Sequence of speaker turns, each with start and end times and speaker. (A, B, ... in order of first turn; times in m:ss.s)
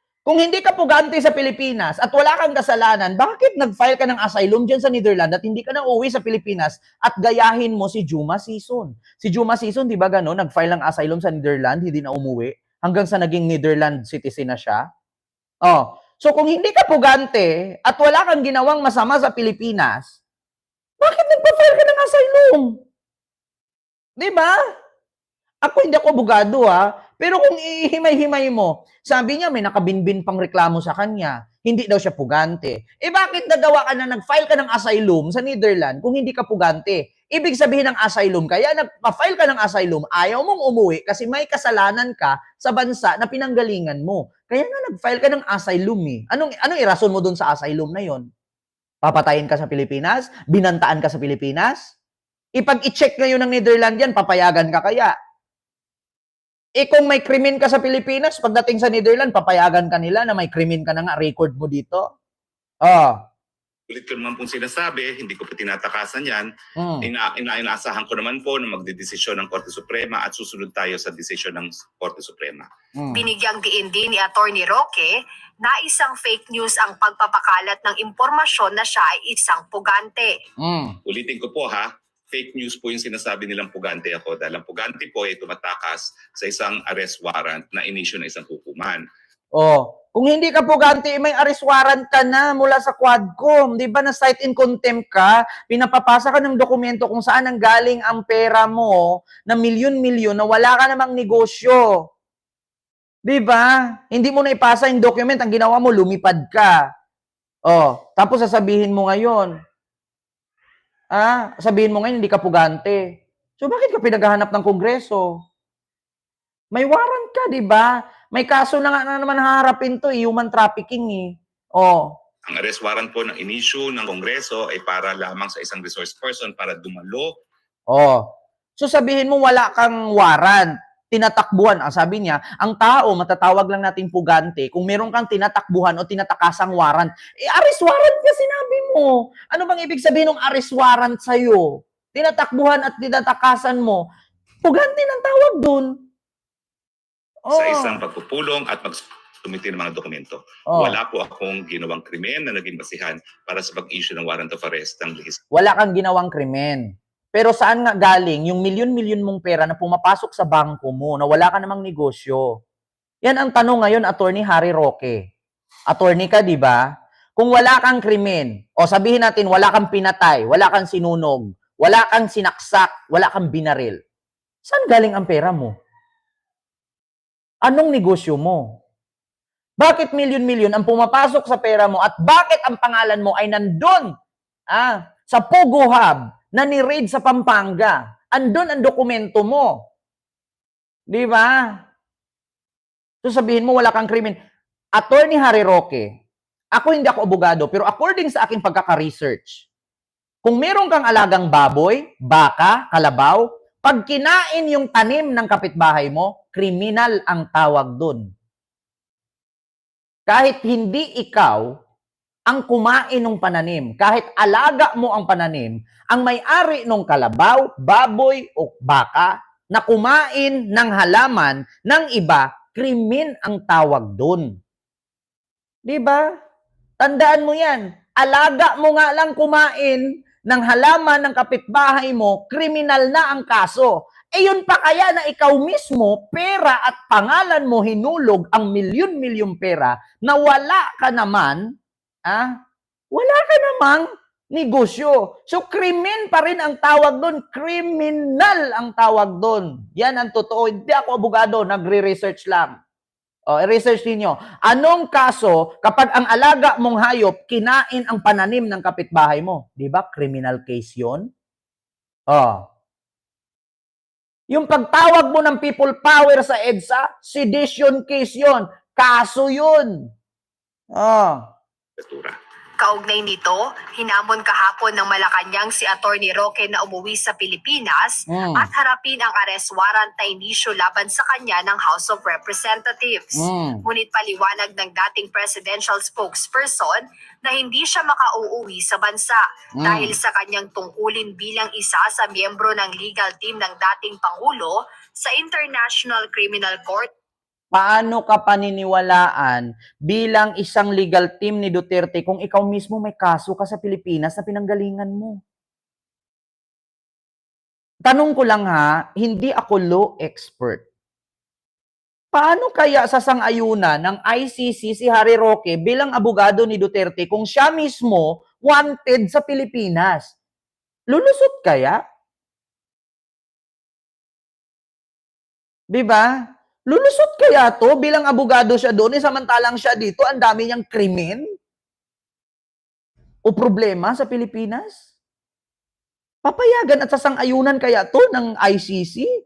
0:00.3-0:14.8 A
0:15.6-0:20.1 A
0:21.0-0:22.7 A
0:24.2-0:24.5 A
0:25.6-0:48.2 A
0:49.0-0:51.9 A
0:52.6-0:55.1 A
0:56.8-1:02.0 A
1:02.8-1:03.2 A
1:03.9-1:06.5 B
1:06.8-1:07.1 A
1:07.0-1:12.7 B
1:13.0-1:13.3 A
1:13.1-1:20.3 C
1:20.6-1:21.0 A
1:21.0-1:29.0 B
1:29.6-1:41.9 A
1:43.3-1:46.8 A
1:47.7-1:49.5 A
1:51.1-1:55.3 A
1:56.7-2:02.1 A
2:02.5-2:07.3 B
2:07.9-2:08.2 A
2:08.8-2:24.0 A
2:24.6-2:25.9 A
2:27.5-2:28.0 A
2:27.5-2:35.4 B
2:30.7-2:31.0 A
2:35.5-2:36.8 A
2:37.3-2:42.4 A
2:43.2-2:45.2 A
2:45.9-2:46.8 A
2:47.4-2:54.0 A
2:54.6-2:55.7 A
2:57.6-2:58.6 A
2:59.8-3:04.1 A
3:04.7-3:09.8 A
3:11.1-3:11.6 A
3:13.2-3:14.4 A
3:15.0-3:16.1 A
3:16.8-3:19.6 A
3:20.4-3:28.2 A
3:30.3-3:31.6 A
3:32.5-3:44.5 A
3:45.8-3:46.2 A
3:47.0-4:01.6 A
4:03.1-4:12.7 A
4:13.5-4:21.2 A
4:22.3-4:22.6 A
4:24.5-4:29.9 A
4:30.9-4:31.4 A
4:32.0-4:32.4 B
4:32.8-4:57.1 C
4:38.3-4:38.7 A
4:43.4-4:43.8 A
4:49.8-4:50.1 A
4:57.7-5:05.4 A
5:08.1-5:10.8 A
5:12.3-5:20.3 A
5:21.1-5:22.0 A
5:25.9-5:26.3 A
5:26.9-5:31.4 A
5:33.5-5:35.0 A
5:36.4-5:39.3 A